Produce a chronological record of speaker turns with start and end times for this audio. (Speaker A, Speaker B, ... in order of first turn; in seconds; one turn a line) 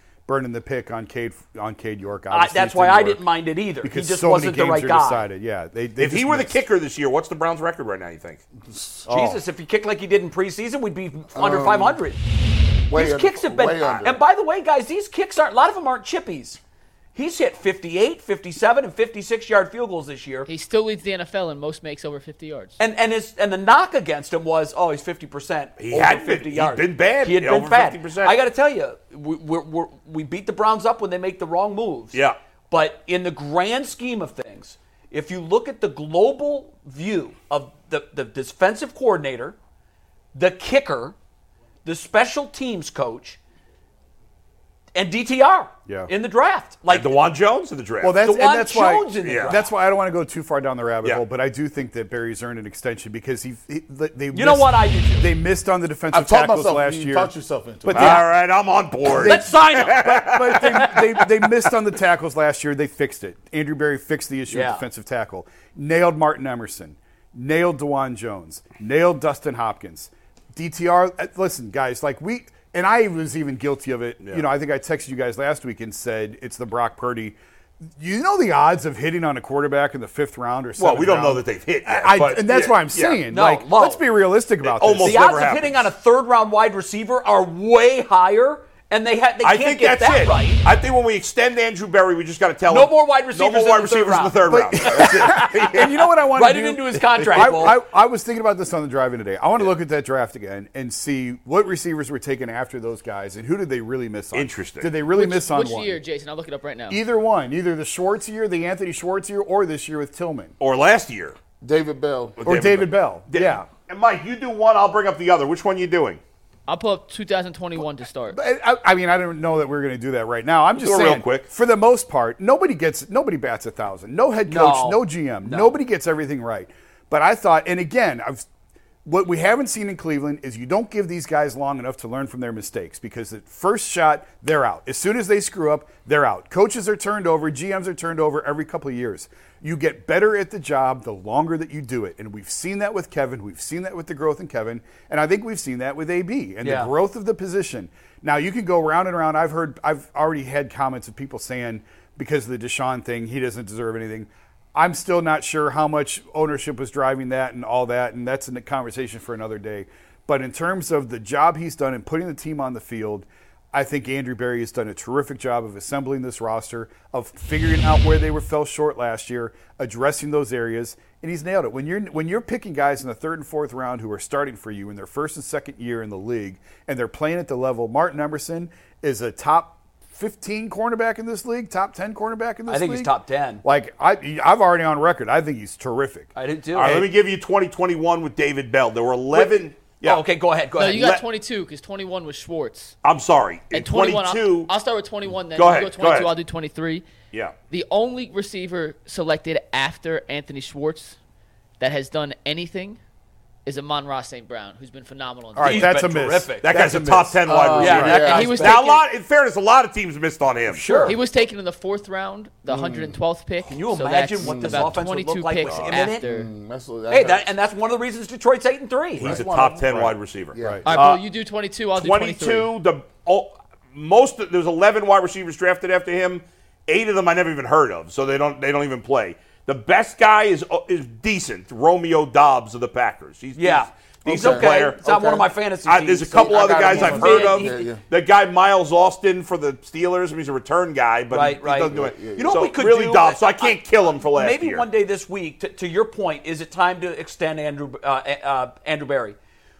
Speaker A: 0.3-3.2
Speaker B: 2.3-5.2
Speaker A: 3.8-6.5
Speaker C: 6.0-8.4
Speaker D: 8.6-9.1
Speaker A: 9.1-9.4
Speaker B: 9.1-12.2
Speaker D: 11.4-12.0
Speaker D: 12.9-14.2
Speaker B: 12.9-16.6
Speaker B: 17.1-20.5
Speaker E: 20.5-22.8
Speaker B: 22.8-32.2
Speaker C: 25.8-28.3
Speaker C: 32.1-32.4
Speaker B: 32.7-39.6
Speaker B: 40.4-41.1
Speaker B: 41.9-43.4
Speaker B: 45.0-47.2
Speaker C: 46.9-48.2
Speaker A: 48.0-57.3
Speaker B: 48.2-49.6
Speaker C: 49.2-49.6
Speaker B: 54.3-55.3
Speaker D: 56.1-58.2
Speaker A: 57.9-58.3
Speaker C: 58.0-60.9
Speaker B: 59.1-60.1
Speaker A: 59.1-77.4
Speaker B: 64.5-64.8
Speaker A: 78.0-85.3
Speaker C: 80.8-83.2
Speaker B: 83.3-84.0
Speaker C: 84.6-85.8
Speaker B: 85.0-90.6
Speaker C: 89.4-96.0
Speaker B: 92.7-97.8
Speaker A: 94.5-106.0
Speaker C: 104.3-104.9
Speaker E: 105.2-107.0
Speaker A: 106.9-110.5
Speaker C: 110.6-111.4
Speaker D: 111.6-112.5
Speaker C: 112.4-116.2
Speaker A: 112.5-113.7
Speaker E: 116.7-118.4
Speaker A: 118.3-128.5
Speaker C: 120.8-121.5
Speaker B: 124.5-125.7
Speaker A: 129.1-186.3
Speaker B: 146.6-146.9
Speaker B: 182.7-183.6
Speaker B: 186.3-187.1
Speaker C: 186.7-190.3
Speaker B: 189.3-191.1
Speaker E: 190.8-192.9
Speaker C: 190.9-191.2
Speaker C: 193.0-194.7
Speaker E: 193.7-197.1
Speaker C: 195.6-196.3
Speaker E: 197.7-201.2
Speaker E: 201.8-203.0
Speaker E: 203.7-205.9
Speaker A: 205.6-208.1
Speaker B: 205.6-206.7
Speaker C: 206.6-211.1
Speaker D: 207.4-208.6
Speaker B: 207.8-208.9
Speaker E: 208.0-209.0
Speaker B: 210.7-211.2
Speaker E: 211.0-216.5
Speaker D: 212.7-213.2
Speaker B: 213.7-216.2
Speaker D: 214.4-214.9
Speaker D: 216.2-217.5
Speaker B: 217.1-219.4
Speaker C: 219.2-221.2
Speaker D: 219.2-220.9
Speaker A: 220.6-220.9
Speaker E: 220.9-222.7
Speaker C: 222.0-235.0
Speaker B: 233.6-237.8
Speaker D: 234.3-235.5
Speaker C: 235.8-244.8
Speaker D: 236.3-238.0
Speaker B: 241.3-249.4
Speaker D: 241.9-242.7